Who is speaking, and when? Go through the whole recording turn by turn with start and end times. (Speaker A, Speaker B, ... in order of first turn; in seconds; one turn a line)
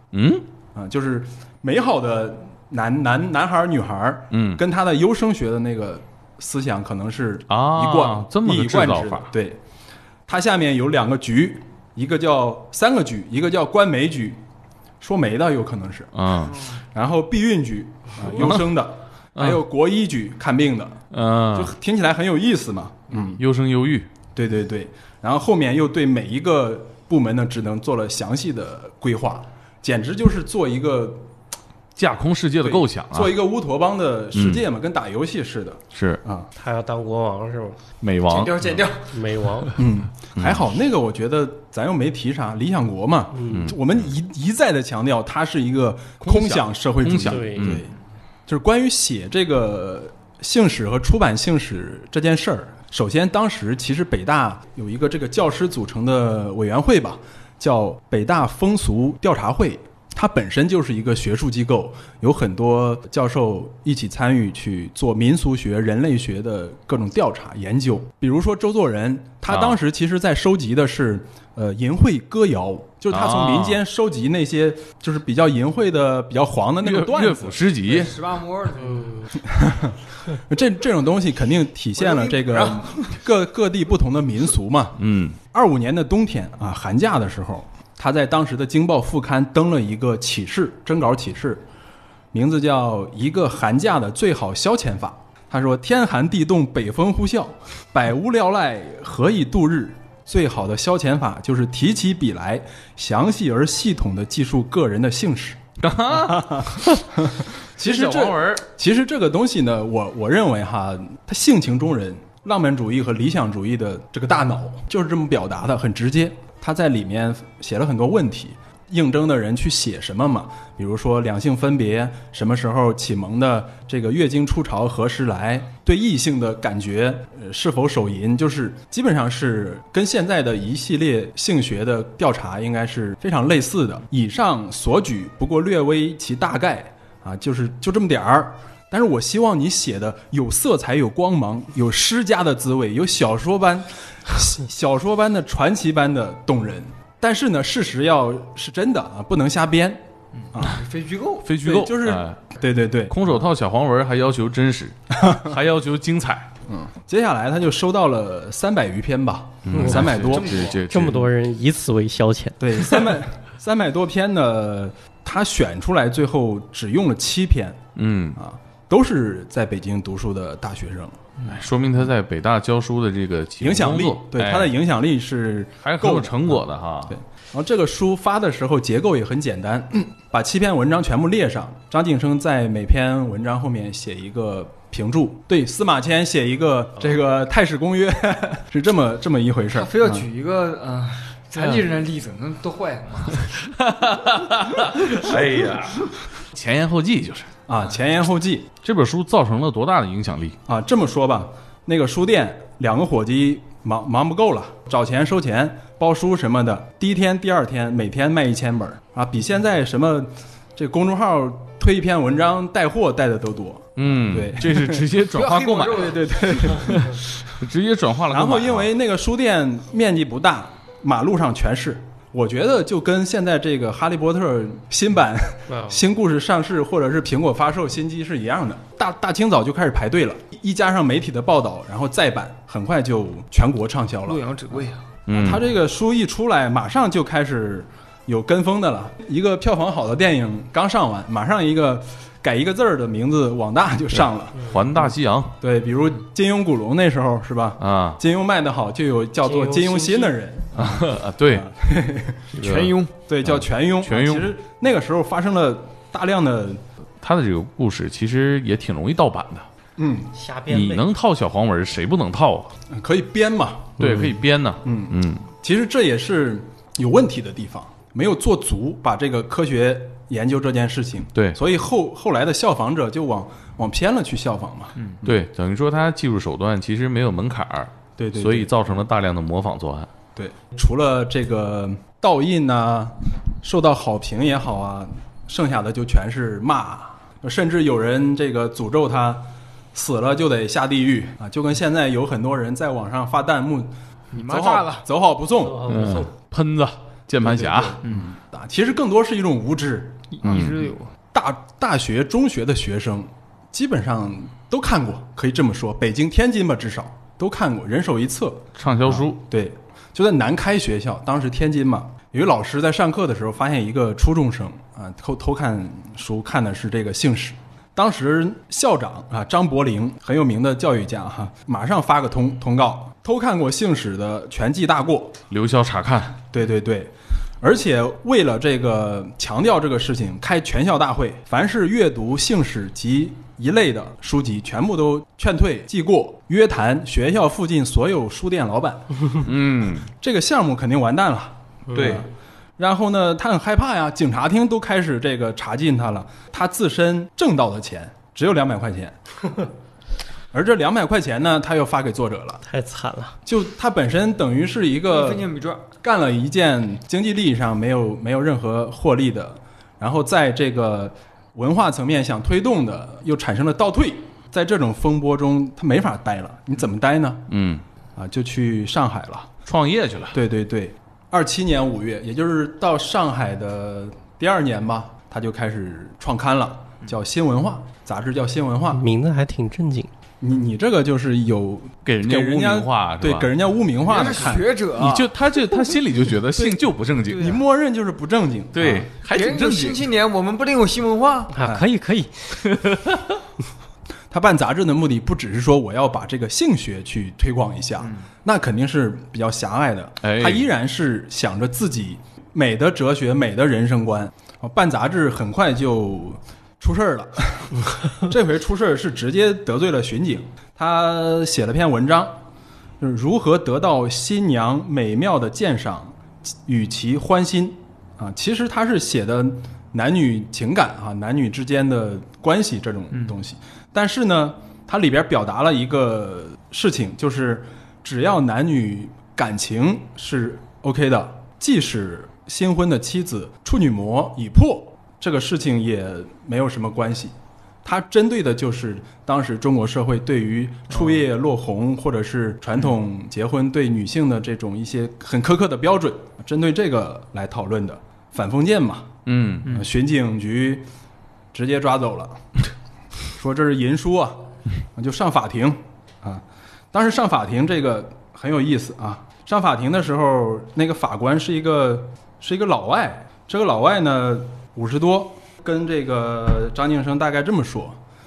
Speaker A: 0.1-0.4
Speaker B: 0.8-9.6
Speaker A: 4.3-4.6
Speaker A: 7.5-9.3
Speaker B: 10.3-14.4
Speaker B: 15.0-16.1
Speaker A: 16.1-16.6
Speaker B: 16.8-21.0
Speaker A: 18.3-18.7
Speaker A: 19.4-19.6
Speaker A: 21.1-21.7
Speaker B: 21.5-23.4
Speaker A: 23.4-24.1
Speaker B: 24.4-31.3
Speaker A: 32.0-33.4
Speaker B: 32.6-36.5
Speaker A: 34.3-34.6
Speaker A: 35.9-36.2
Speaker C: 36.6-37.8
Speaker A: 38.0-38.6
Speaker D: 38.3-39.2
Speaker C: 39.1-39.8
Speaker B: 39.8-47.9
Speaker A: 40.4-40.6
Speaker C: 43.4-43.7
Speaker A: 43.5-44.0
Speaker A: 46.2-47.9
Speaker C: 47.2-47.8
Speaker B: 48.5-77.6
Speaker A: 69.5-69.8
Speaker A: 73.1-73.8
Speaker A: 76.8-78.2
Speaker D: 77.8-79.3
Speaker B: 79.4-91.7
Speaker D: 82.0-83.2
Speaker A: 85.0-85.4
Speaker B: 92.3-150.8
Speaker A: 105.8-107.0
Speaker A: 107.8-108.7
Speaker D: 150.4-151.5
Speaker A: 151.4-152.4
Speaker B: 151.6-153.5
Speaker A: 153.1-156.5
Speaker B: 155.2-155.6
Speaker B: 156.7-160.6
Speaker A: 159.7-161.3
Speaker C: 159.7-160.1
Speaker D: 160.2-160.8
Speaker C: 160.8-162.8
Speaker B: 162.6-167.8
Speaker A: 168.0-168.4
Speaker B: 168.4-171.3
Speaker A: 171.5-174.8
Speaker B: 173.6-190.3
Speaker A: 175.8-177.2
Speaker D: 189.7-193.6
Speaker A: 191.6-191.8
Speaker A: 193.6-197.5
Speaker B: 197.7-198.7
Speaker A: 198.8-200.6
Speaker B: 200.7-215.1
Speaker A: 214.0-216.2
Speaker D: 215.3-217.2
Speaker B: 215.9-217.2
Speaker A: 216.8-218.9
Speaker B: 218.3-234.5
Speaker C: 225.7-226.0
Speaker D: 234.3-235.1
Speaker A: 235.3-235.7
Speaker B: 235.3-252.5
Speaker A: 244.7-245.5
Speaker A: 247.8-248.2
Speaker C: 249.4-250.3
Speaker A: 250.8-251.7
Speaker D: 252.6-253.1
Speaker A: 252.6-254.5
Speaker B: 253.3-256.8
Speaker A: 257.2-259.7
Speaker B: 260.0-260.3
Speaker C: 260.3-261.1
Speaker A: 260.7-262.7
Speaker B: 262.9-275.4
Speaker A: 264.0-265.5
Speaker A: 275.2-280.1
Speaker B: 278.2-278.9
Speaker B: 280.4-296.0
Speaker D: 294.3-295.1
Speaker C: 295.6-296.3
Speaker A: 295.9-298.0
Speaker B: 297.4-300.8
Speaker D: 298.0-298.3
Speaker D: 300.3-301.1
Speaker A: 300.4-300.8
Speaker B: 301.3-325.4
Speaker A: 308.8-309.4
Speaker A: 325.5-326.4
Speaker B: 326.5-339.5
Speaker A: 339.4-340.1
Speaker B: 340.0-349.2
Speaker A: 341.9-342.2
Speaker B: 350.5-352.6
Speaker C: 352.6-353.4
Speaker B: 353.5-355.5
Speaker D: 355.1-355.8
Speaker B: 356.0-367.5
Speaker A: 367.5-367.8
Speaker B: 368.2-369.5
Speaker A: 369.7-370.4
Speaker B: 370.3-379.0
Speaker C: 378.9-380.1
Speaker B: 380.4-384.8
Speaker A: 382.1-383.5
Speaker D: 384.1-385.3
Speaker A: 384.9-387.5
Speaker B: 386.6-389.1
Speaker D: 387.3-387.6
Speaker A: 388.7-390.1
Speaker D: 389.3-391.5
Speaker C: 391.5-392.5
Speaker A: 392.7-393.3
Speaker B: 394.3-412.4
Speaker D: 398.0-398.3
Speaker A: 400.2-400.7
Speaker B: 413.0-450.9
Speaker D: 423.1-423.4
Speaker A: 449.3-449.8
Speaker B: 451.5-452.4
Speaker B: 453.4-468.0